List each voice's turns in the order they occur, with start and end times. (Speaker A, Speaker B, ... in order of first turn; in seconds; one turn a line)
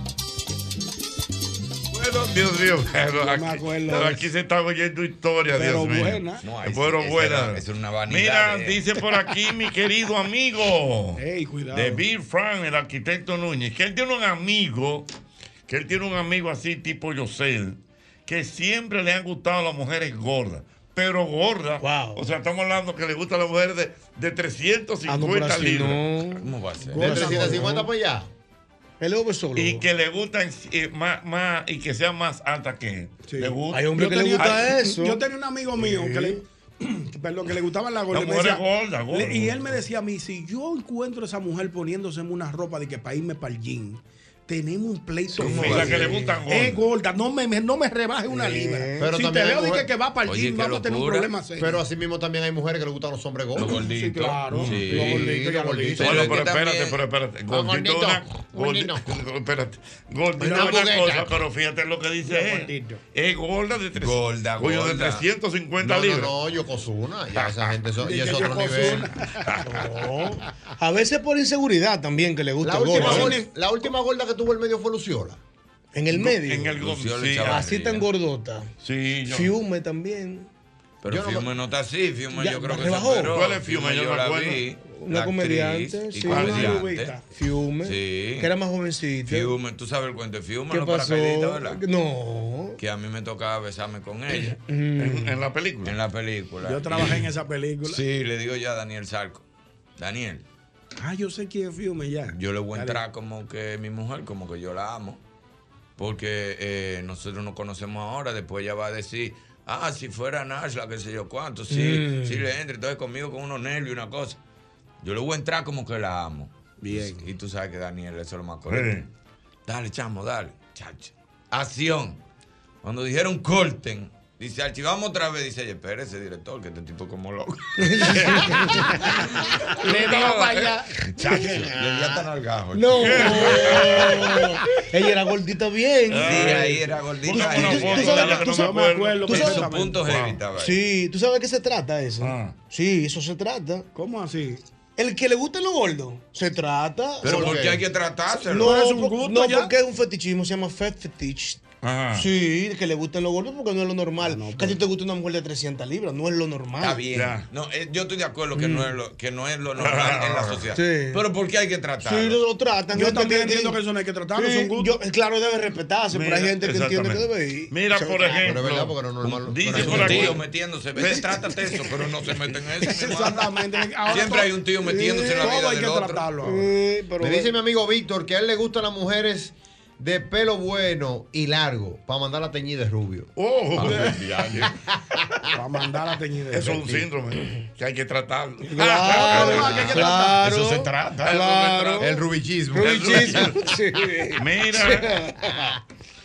Speaker A: 1.9-15.1
Speaker B: 3.1-4.3
Speaker B: 5.5-6.4
Speaker C: 6.4-8.8
Speaker B: 11.2-12.0
Speaker A: 15.7-26.1
Speaker D: 21.8-22.2
Speaker D: 25.1-27.9
Speaker C: 26.4-27.1
Speaker E: 26.9-28.3
Speaker B: 27.0-27.6
Speaker D: 29.0-29.9
Speaker A: 29.6-34.7
Speaker B: 33.2-51.8
Speaker D: 33.7-35.2
Speaker D: 35.8-36.4
Speaker A: 38.1-39.8
Speaker C: 45.4-46.1
Speaker A: 45.5-46.8
Speaker D: 45.5-46.3
Speaker D: 48.3-49.1
Speaker E: 49.0-49.9
Speaker C: 50.3-51.3
Speaker E: 51.6-53.8
Speaker C: 53.6-55.3
Speaker B: 53.7-56.1
Speaker A: 54.5-54.9
Speaker E: 54.9-56.4
Speaker A: 55.9-66.3
Speaker C: 56.0-57.0
Speaker E: 57.5-59.1
Speaker E: 60.4-61.4
Speaker B: 62.3-63.0
Speaker C: 64.0-65.3
Speaker E: 65.8-69.1
Speaker B: 68.0-69.5
Speaker D: 69.6-73.4
Speaker E: 72.6-75.4
Speaker A: 73.0-73.4
Speaker B: 73.0-73.5
Speaker D: 76.0-76.8
Speaker A: 76.1-77.6
Speaker C: 76.8-78.1
Speaker D: 77.4-78.7
Speaker A: 78.8-79.5
Speaker D: 79.3-80.5
Speaker C: 81.0-87.1
Speaker E: 81.1-81.5
Speaker D: 82.4-83.4
Speaker A: 83.3-84.6
Speaker D: 84.9-86.8
Speaker B: 86.3-87.2
Speaker A: 86.3-86.8
Speaker D: 87.3-89.5
Speaker C: 87.8-88.5
Speaker C: 89.3-91.8
Speaker D: 90.7-92.8
Speaker C: 92.8-94.6
Speaker D: 94.3-95.4
Speaker A: 95.0-96.0
Speaker C: 95.8-97.3
Speaker B: 96.6-98.0
Speaker C: 97.8-99.5
Speaker C: 100.0-100.4
Speaker B: 101.0-103.0
Speaker C: 102.3-105.2
Speaker C: 106.0-114.4
Speaker D: 111.7-112.5
Speaker C: 115.0-118.9
Speaker B: 116.8-117.2
Speaker A: 118.7-119.1
Speaker C: 119.7-122.2
Speaker C: 122.8-128.4
Speaker D: 127.8-128.8
Speaker A: 128.1-128.5
Speaker A: 129.8-130.8
Speaker C: 129.9-134.2
Speaker D: 130.0-130.4
Speaker D: 131.2-132.2
Speaker D: 132.7-139.7
Speaker A: 133.0-134.2
Speaker A: 136.1-140.4
Speaker C: 136.2-138.4
Speaker B: 137.6-140.1
Speaker C: 139.5-140.8
Speaker D: 140.6-143.9
Speaker A: 142.2-142.6
Speaker B: 143.9-144.6
Speaker D: 145.0-147.6
Speaker C: 147.2-148.7
Speaker E: 147.2-147.8
Speaker B: 148.4-149.7
Speaker D: 148.5-151.6
Speaker A: 151.8-152.3
Speaker D: 152.1-157.0
Speaker B: 154.2-154.8
Speaker C: 156.8-162.4
Speaker A: 157.2-157.4
Speaker D: 158.6-158.9
Speaker A: 159.8-160.7
Speaker D: 160.7-161.2
Speaker D: 162.0-163.8
Speaker B: 162.9-164.9
Speaker D: 164.4-168.6
Speaker A: 166.1-170.4
Speaker E: 168.4-170.4
Speaker C: 169.7-176.3
Speaker A: 171.0-171.3
Speaker B: 173.0-174.5
Speaker D: 174.8-175.5
Speaker B: 175.4-176.7
Speaker D: 176.4-177.5
Speaker E: 177.2-183.3
Speaker A: 183.4-184.7
Speaker C: 183.8-184.7
Speaker E: 185.1-185.4
Speaker B: 185.5-187.1
Speaker A: 186.5-190.1
Speaker D: 188.7-192.2
Speaker B: 189.1-190.4
Speaker C: 189.8-191.4
Speaker A: 191.2-192.1
Speaker E: 192.0-193.6
Speaker D: 192.7-195.5
Speaker A: 192.8-193.7
Speaker A: 194.4-195.2
Speaker E: 195.5-195.7